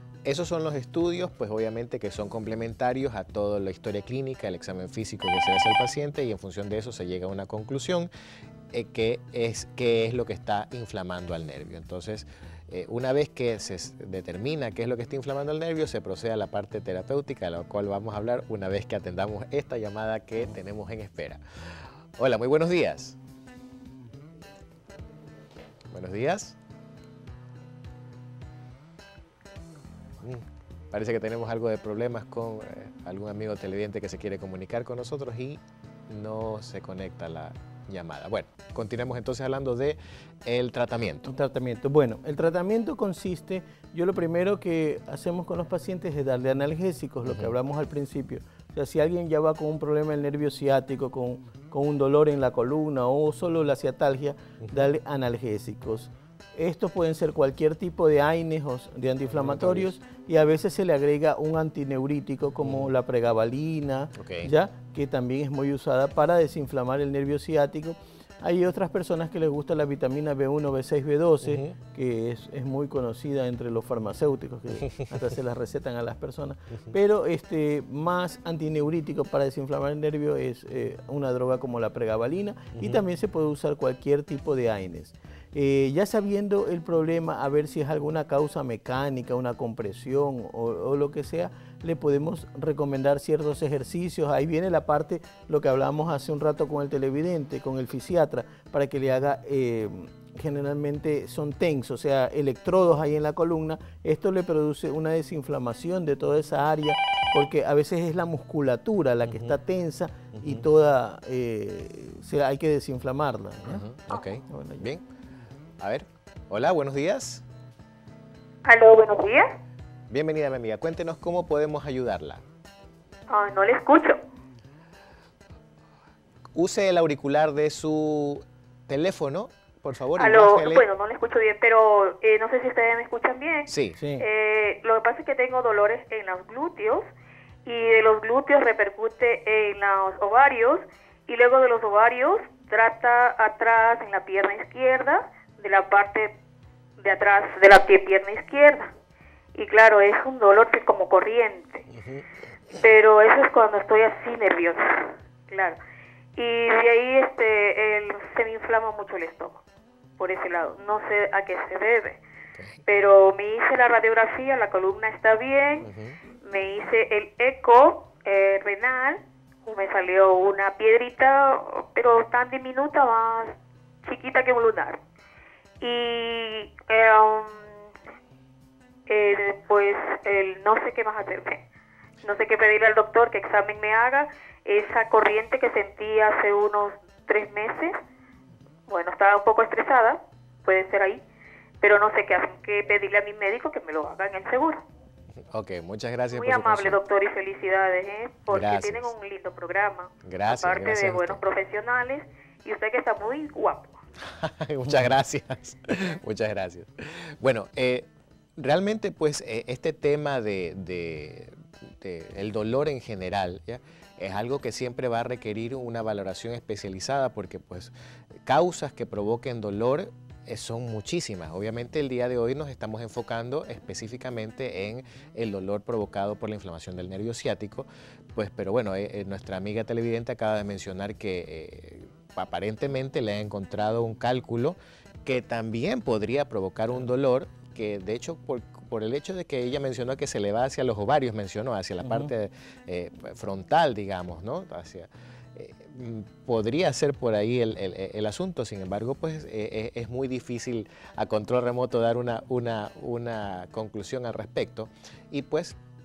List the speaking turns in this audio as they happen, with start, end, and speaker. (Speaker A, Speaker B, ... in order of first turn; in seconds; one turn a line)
Speaker A: 0.2-8.1
Speaker A: 8.7-23.2
Speaker A: 25.9-26.6
Speaker A: 30.2-41.3
Speaker B: 41.3-113.8
Speaker A: 47.2-47.5
Speaker A: 59.3-59.9
Speaker A: 62.6-62.9
Speaker A: 64.2-64.5
Speaker A: 71.4-71.7
Speaker A: 113.6-115.0
Speaker B: 114.5-114.9
Speaker A: 115.8-117.4
Speaker C: 118.6-119.5
Speaker A: 120.1-122.4
Speaker C: 123.3-124.2
Speaker A: 126.5-130.8
Speaker C: 130.1-137.1
Speaker A: 133.7-134.0
Speaker B: 134.0-134.2
Speaker C: 137.6-146.3
Speaker C: 147.0-148.9
Speaker C: 149.5-151.8
Speaker C: 152.7-155.8
Speaker C: 156.3-159.6
Speaker C: 160.2-162.2
Speaker C: 162.9-165.9
Speaker A: 165.8-166.2
Speaker C: 166.4-175.0
Speaker C: 175.8-177.8
Speaker C: 179.1-181.6
Speaker C: 182.2-188.0
Speaker C: 188.9-191.2
Speaker C: 191.8-194.8
Speaker A: 195.4-197.0
Speaker C: 196.3-204.0
Speaker A: 198.5-199.1
Speaker A: 200.2-201.4
Speaker A: 204.2-217.9
Speaker A: 218.4-255.8
Speaker B: 242.0-242.3